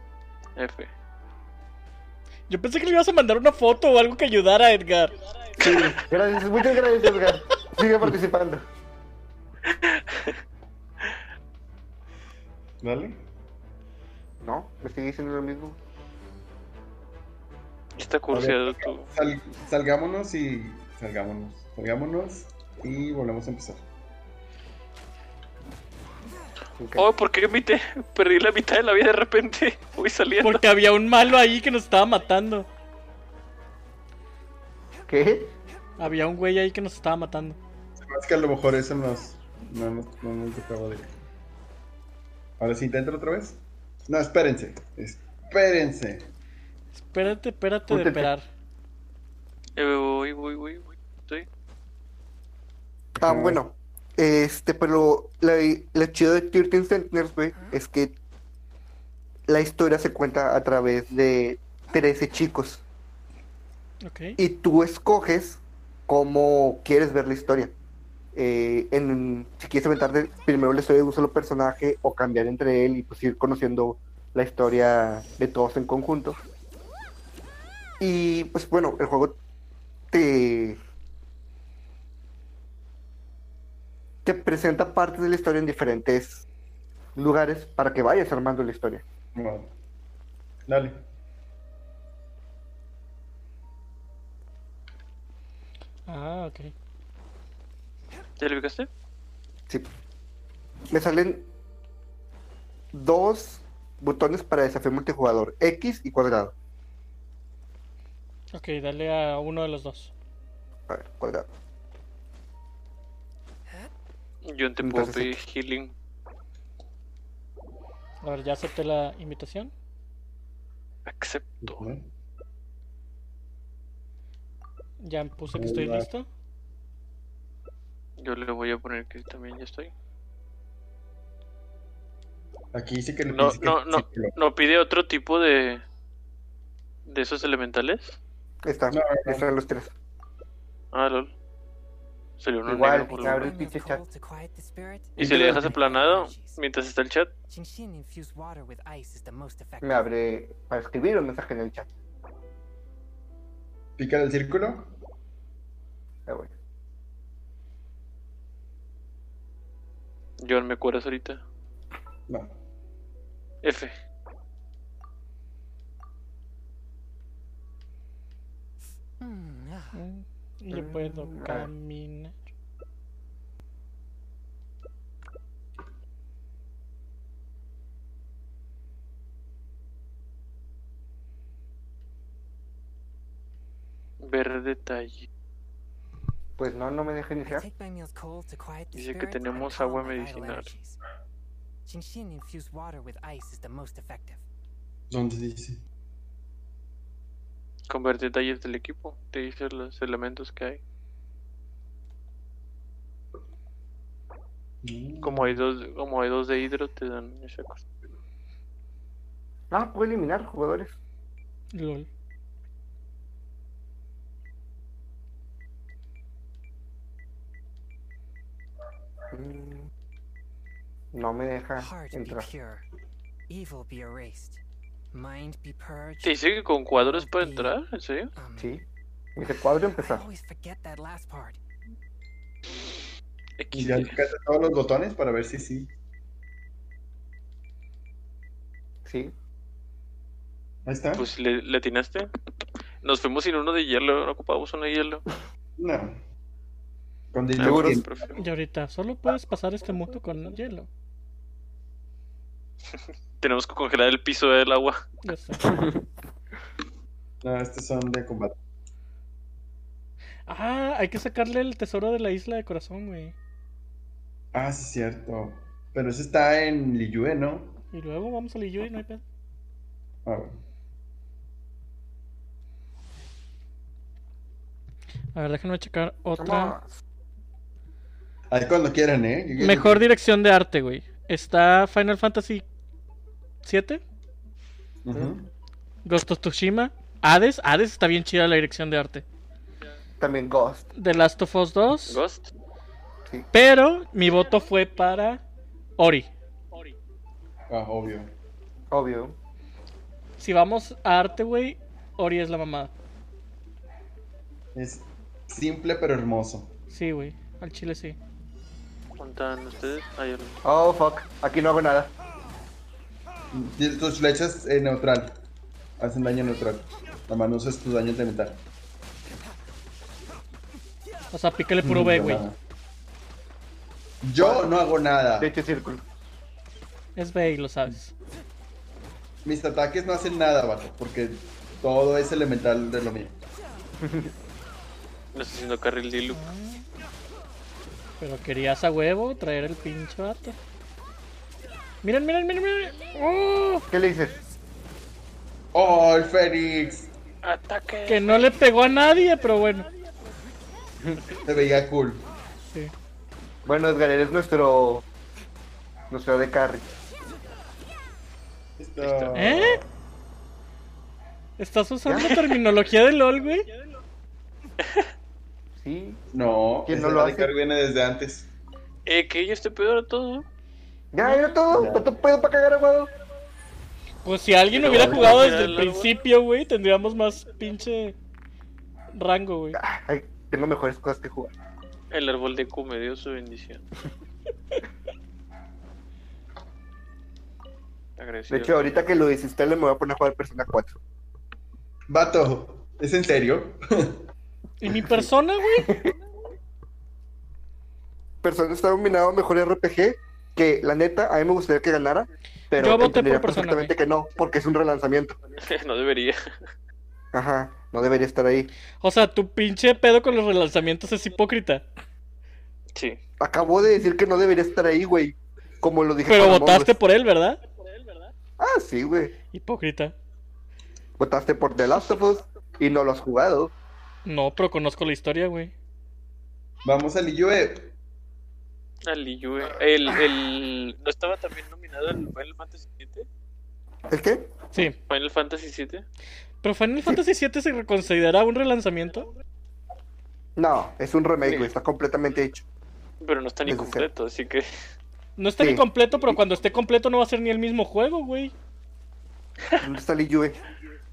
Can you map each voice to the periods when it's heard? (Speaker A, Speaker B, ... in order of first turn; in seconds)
Speaker A: 0.6-0.9, 5.6-5.9, 9.7-10.4, 18.0-19.1, 27.0-30.6, 49.8-51.5, 98.4-98.9, 114.4-115.9, 121.1-121.9, 128.2-129.9, 133.3-135.8, 137.1-138.2, 140.9-141.3, 142.4-143.5, 145.2-147.3, 160.4-161.4, 163.6-163.9, 184.2-185.3, 188.9-190.7, 197.9-200.8, 205.2-207.8, 226.2-228.3, 233.6-234.2, 241.1-242.3, 243.0-245.3, 247.6-248.4, 253.4-255.0, 292.1-292.5, 309.2-310.6, 335.3-336.4, 347.4-348.5, 359.0-359.4, 369.1-370.5, 374.7-376.1, 382.1-383.8, 388.2-388.9, 405.6-406.5, 429.1-433.2, 435.1-436.0, 443.2-444.6
Speaker B: 2.5-5.1, 30.4-32.7, 36.0-37.6, 46.9-48.5, 64.0-64.4, 96.1-96.7, 108.5-110.1, 118.2-119.7, 125.0-126.3, 169.9-172.4, 211.7-212.1, 248.3-250.9, 255.2-255.8, 260.5-263.3, 267.9-269.2, 275.4-276.8, 279.6-282.6, 283.6-284.0, 286.1-289.2, 290.9-292.2, 293.5-295.4, 296.0-296.3, 300.4-302.9, 306.9-308.2, 321.3-322.4, 327.1-328.1, 336.3-336.9, 338.2-340.6, 342.0-343.8, 348.1-349.9, 359.3-359.8, 361.6-363.7, 374.2-378.1, 379.1-379.8, 394.8-395.9, 402.8-403.9, 409.0-411.8, 416.3-417.6, 419.5-420.1, 424.2-425.7, 436.6-439.3, 445.4-448.5
Speaker C: 5.6-8.6, 14.4-15.8, 26.8-27.1, 35.1-35.5, 47.9-48.3, 53.2-58.1, 59.5-62.8, 64.4-67.7, 68.3-76.4, 78.0-79.4, 80.1-80.8, 84.2-86.4, 87.2-89.0, 100.9-101.4, 102.9-106.5, 110.9-111.5, 114.8-115.3, 138.6-139.9, 142.7-144.0, 149.8-151.9, 170.7-171.7, 186.6-187.7, 209.7-210.9, 219.3-219.9, 221.1-222.5, 228.6-228.8, 229.4-230.3, 239.1-239.3, 247.6-248.0, 255.6-256.0, 276.4-276.9, 290.2-290.9, 298.9-299.4, 310.6-312.1, 324.4-324.7, 325.4-326.0, 334.0-334.3, 343.9-344.4, 353.6-355.1, 356.1-356.9, 362.1-362.3, 365.8-366.2, 366.9-367.5, 371.1-373.1, 379.8-381.5, 388.5-391.0, 394.9-396.1, 398.4-405.4, 407.3-408.7, 413.4-416.9, 418.6-419.3, 421.2-423.7, 434.1-434.5, 440.6-442.6, 443.7-444.1, 445.6-445.9, 449.8-450.6
Speaker D: 12.8-13.2, 18.3-23.8, 38.0-41.1, 42.6-46.3, 53.1-53.6, 89.3-89.7, 90.7-91.0, 121.6-122.1, 125.5-126.1, 132.7-134.3, 138.9-139.4, 154.0-154.9, 162.3-162.5, 195.1-195.8, 204.8-205.6, 233.7-235.9, 240.9-241.3, 245.8-246.2, 247.3-248.1, 257.4-258.6, 264.5-267.8, 270.2-270.6, 278.5-280.1, 285.0-285.5, 297.7-298.3, 304.8-306.7, 313.5-315.4, 316.0-318.6, 321.8-322.6, 324.2-325.5, 329.4-333.4, 345.7-347.1, 351.4-352.2, 358.8-359.9, 366.3-368.5, 371.7-372.1, 374.8-375.5, 392.1-394.2, 426.8-427.9
Speaker E: 143.1-146.6, 147.5-150.1, 169.2-169.9, 187.4-191.0, 191.9-194.4, 221.8-222.9, 223.5-224.6, 225.1-227.7, 228.3-228.7, 230.0-231.6